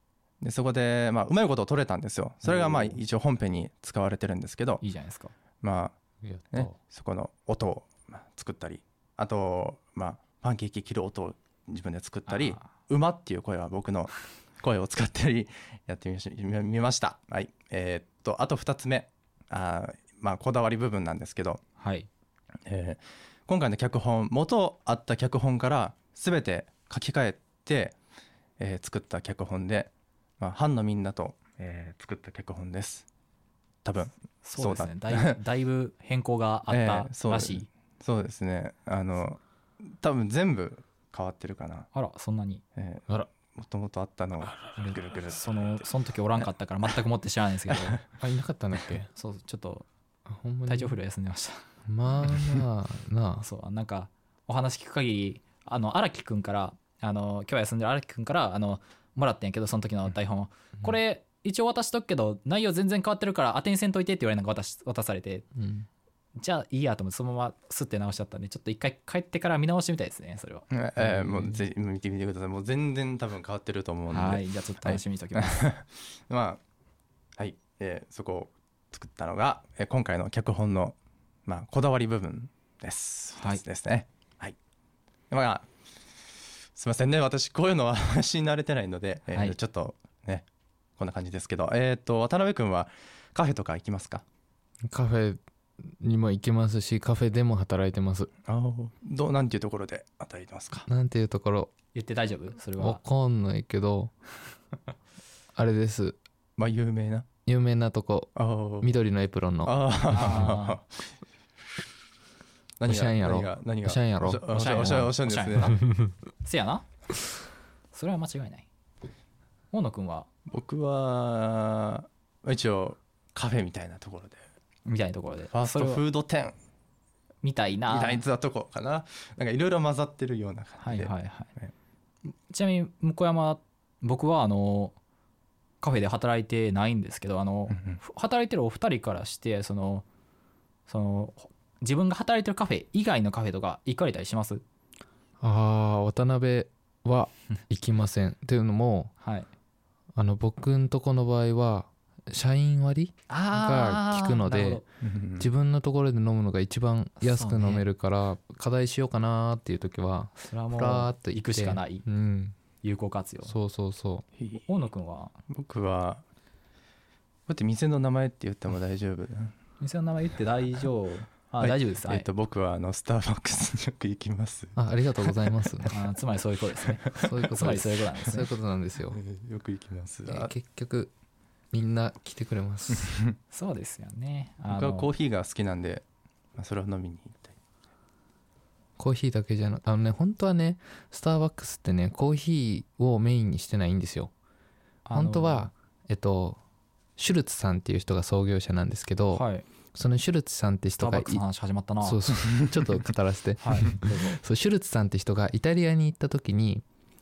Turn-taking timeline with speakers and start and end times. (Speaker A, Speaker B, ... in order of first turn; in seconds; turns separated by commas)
Speaker A: 0.4-4.8, Speaker B: 4.8-5.3, Speaker A: 5.6-6.0, Speaker C: 6.2-6.8, Speaker A: 6.5-21.6, Speaker B: 12.3-12.6, Speaker B: 21.8-22.1, Speaker A: 22.7-27.9, Speaker A: 28.6-33.1, Speaker A: 33.9-35.4, Speaker B: 34.4-37.7, Speaker A: 36.7-39.4, Speaker A: 40.0-41.9, Speaker B: 41.9-42.6, Speaker A: 42.8-45.4, Speaker B: 44.8-48.0, Speaker C: 48.2-49.1, Speaker B: 49.1-49.9, Speaker C: 50.3-51.0, Speaker B: 50.7-51.6, Speaker C: 51.9-53.5, Speaker B: 53.4-65.5, Speaker C: 65.6-65.9, Speaker B: 66.4-71.5, Speaker A: 70.7-76.6, Speaker B: 74.1-75.7, Speaker A: 77.4-81.0, Speaker A: 81.5-84.6, Speaker A: 85.3-85.7, Speaker A: 86.8-90.5, Speaker A: 91.0-94.2, Speaker C: 94.9-98.3, Speaker A: 98.5-100.9, Speaker C: 100.9-101.7, Speaker B: 101.9-103.0, Speaker C: 102.8-104.1, Speaker C: 105.5-106.2, Speaker A: 106.6-107.3, Speaker C: 107.5-110.5, Speaker A: 108.4-108.9, Speaker A: 109.7-110.8, Speaker B: 110.1-110.8, Speaker A: 112.8-115.8, Speaker C: 112.8-114.6, Speaker B: 114.5-116.9, Speaker B: 117.9-118.7, Speaker B: 119.7-120.3, Speaker A: 120.5-124.4, Speaker B: 124.9-126.0, Speaker A: 125.5-126.5, Speaker B: 127.4-128.2, Speaker A: 127.9-131.7, Speaker B: 130.8-131.5, Speaker B: 132.5-135.0, Speaker B: 135.8-140.1, Speaker A: 137.7-138.0, Speaker B: 140.9-144.6, Speaker C: 145.4-149.1, Speaker B: 149.2-149.5, Speaker C: 150.2-154.8, Speaker B: 153.3-154.8, Speaker A: 155.0-155.5, Speaker C: 155.4-162.6, Speaker B: 157.2-157.9, Speaker B: 160.4-162.1, Speaker B: 162.8-163.5, Speaker C: 163.4-164.3, Speaker B: 164.7-165.3, Speaker A: 165.5-166.2, Speaker A: 167.5-169.5, Speaker B: 169.8-172.3, Speaker A: 171.6-175.5, Speaker C: 174.8-175.9, Speaker B: 175.9-178.5, Speaker A: 177.1-177.5, Speaker C: 177.2-179.2, Speaker A: 179.1-180.5, Speaker C: 180.3-181.1, Speaker C: 181.7-183.2, Speaker B: 183.5-185.1, Speaker A: 184.7-186.0, Speaker A: 186.6-187.6, Speaker C: 189.0-194.3, Speaker B: 195.1-195.7, Speaker C: 195.1-196.6, Speaker C: 197.2-201.4, Speaker B: 199.3-199.7, Speaker B: 201.0-202.2, Speaker C: 202.0-206.8, Speaker B: 203.6-204.4